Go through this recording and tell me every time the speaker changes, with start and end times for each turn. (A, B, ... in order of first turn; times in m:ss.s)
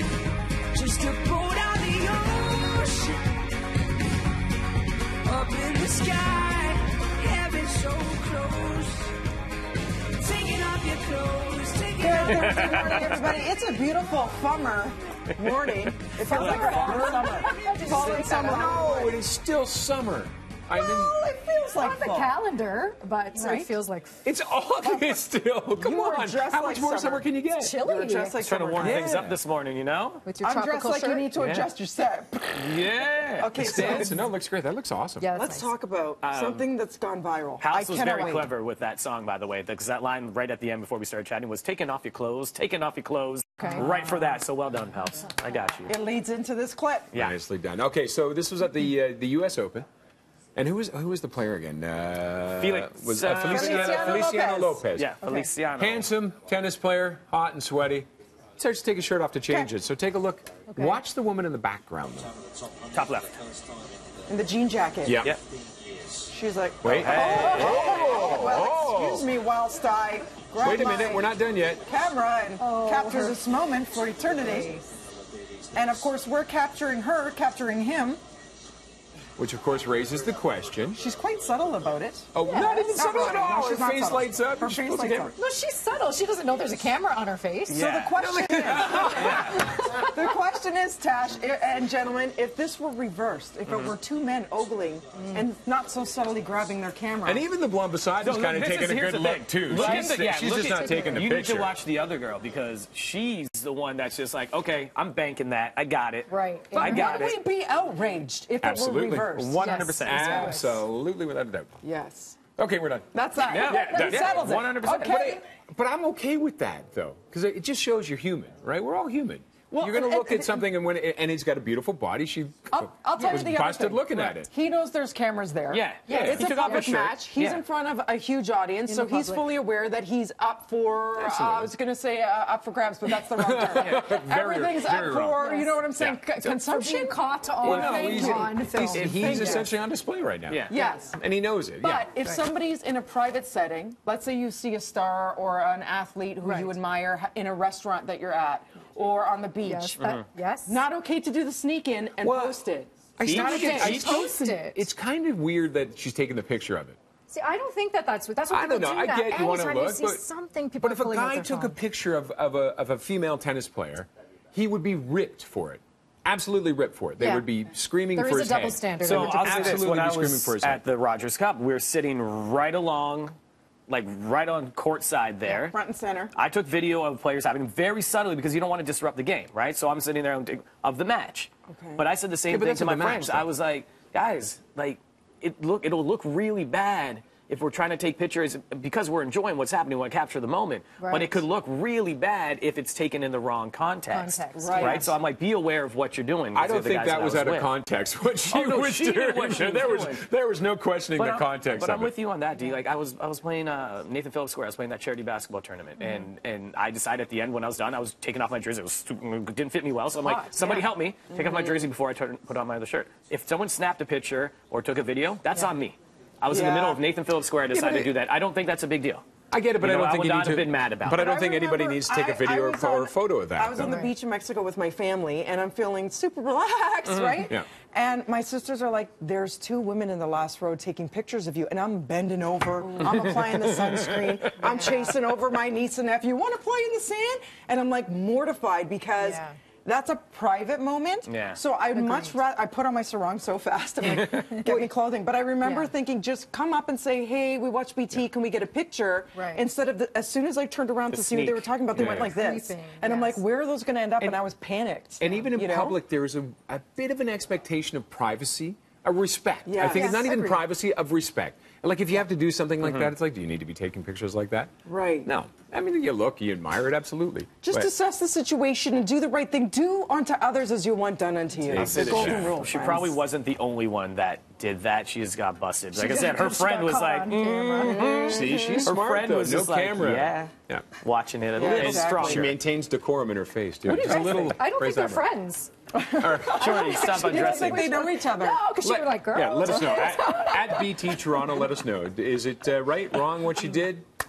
0:00.7-0:03.5 A
0:05.2-0:09.2 A
0:10.1-0:13.2 A
0:12.0-0:19.2 B
0:12.3-0:13.1 C
0:15.5-0:18.3 C
0:16.2-0:18.9 A
0:18.4-0:21.2 D
0:20.7-0:22.3 B
0:21.8-0:25.2 A
0:23.3-0:23.7 B
0:24.2-0:27.8 D
0:25.8-0:29.2 B
0:27.6-0:28.4 A
0:28.4-0:30.3 C
0:28.8-0:29.4 D
0:30.2-0:31.3 A
0:30.4-0:32.8 B
0:31.3-0:31.7 C
0:32.5-0:34.1 C
0:33.4-0:34.2 B
0:33.6-0:35.3 D
0:35.2-0:35.7 A
0:35.3-0:38.5 B
0:36.2-0:36.7 C
0:37.6-0:45.9 C
0:43.6-0:43.9 A
0:43.6-0:43.9 B
0:45.9-0:47.1 B
0:47.1-0:47.4 C
0:47.2-0:49.9 D
0:50.6-0:55.1 D
0:52.6-0:54.3 C
0:53.3-0:54.8 B
0:54.9-0:56.1 C
0:55.8-1:02.3 D
1:02.9-1:03.4 C
1:04.3-1:05.2 B
1:05.0-1:05.3 D
1:06.3-1:11.3 B
1:06.8-1:09.2 D
1:07.0-1:08.2 C
1:07.4-1:07.8 A
1:10.6-1:11.8 D
1:11.8-1:14.8 B
1:12.6-1:13.4 A
1:14.4-1:14.8 A
1:15.7-1:18.2 B
1:19.4-1:21.0 D
1:20.9-1:25.4 B
1:22.3-1:25.3 D
1:22.4-1:23.4 A
1:25.2-1:27.9 A
1:27.7-1:28.2 C
1:27.7-1:37.4 B
1:28.2-1:29.6 D
1:29.0-1:29.6 C
1:29.6-1:30.2 A
1:33.7-1:34.0 C
1:35.2-1:35.4 A
1:37.2-1:41.7 D
1:38.2-1:47.4 C
1:39.8-1:40.1 B
1:46.3-1:47.3 A
1:46.7-1:50.6 B
1:48.6-1:51.8 D
1:49.4-1:50.5 C
1:49.6-1:50.8 A
1:51.8-1:52.4 B
1:52.6-1:53.1 D
1:53.1-1:55.4 B
1:53.4-1:55.2 C
1:53.7-1:54.3 D
1:54.9-2:04.5 D
1:59.7-2:00.7 B
2:02.7-2:19.7 B
2:05.7-2:07.6 C
2:06.1-2:06.9 A
2:06.1-2:06.6 D
2:08.9-2:09.5 A
2:11.2-2:11.7 D
2:13.4-2:15.4 D
2:13.8-2:14.1 C
2:15.4-2:15.7 A
2:16.5-2:19.7 A
2:17.6-2:22.1 D
2:20.5-2:20.7 C
2:20.7-2:21.2 B
2:21.8-2:30.0 B
2:26.4-2:26.7 A
2:29.6-2:30.8 A
2:30.0-2:30.2 C
2:30.7-2:34.3 B
2:32.2-2:32.6 D
2:33.2-2:37.0 D
2:33.2-2:34.8 A
2:33.2-2:33.7 C
2:37.3-2:41.8 A
2:38.5-2:40.2 D
2:40.8-2:50.8 D
2:47.2-2:47.5 A
2:48.1-2:49.8 A
2:49.0-2:53.3 C
2:53.9-2:55.8 C
2:55.5-2:56.3 B
2:56.3-3:17.7 C
3:01.7-3:02.0 B
3:02.5-3:03.5 D
3:11.0-3:11.4 A
3:14.1-3:15.1 A
3:14.5-3:15.2 B
3:16.5-3:22.2 D
3:18.5-3:20.2 C
3:21.1-3:39.2 C
3:30.2-3:30.8 A
3:30.6-3:31.8 B
3:36.5-3:37.0 B
3:37.7-3:38.1 D
3:39.5-3:44.0 D
3:39.8-3:41.3 C
3:41.1-4:16.0 B
3:43.8-3:44.1 A
3:53.0-3:54.7 C
3:54.6-3:55.2 A
3:59.2-3:59.6 A
4:01.2-4:01.6 C
4:01.9-4:02.4 A
4:05.6-4:05.9 A
4:09.3-4:09.6 A
4:11.1-4:11.7 C
4:11.9-4:12.3 D
4:12.0-4:13.4 A
4:15.2-4:24.7 D
4:19.6-4:20.5 B
4:19.8-4:20.6 A
4:22.8-4:23.1 C
4:24.8-4:25.3 B
4:25.2-4:27.9 D
4:27.6-4:33.2 B
4:31.7-4:32.6 D
4:31.7-4:42.5 C
4:35.9-4:38.1 A
4:37.7-4:38.9 B
4:38.3-4:40.9 D
4:41.6-4:42.5 B
4:41.6-4:45.2 D
4:43.8-4:45.7 A
4:45.9-4:48.6 B
4:46.2-4:47.3 D
4:46.5-4:48.1 C
4:47.3-4:51.2 A
4:48.8-4:54.0 D
4:49.6-4:50.2 B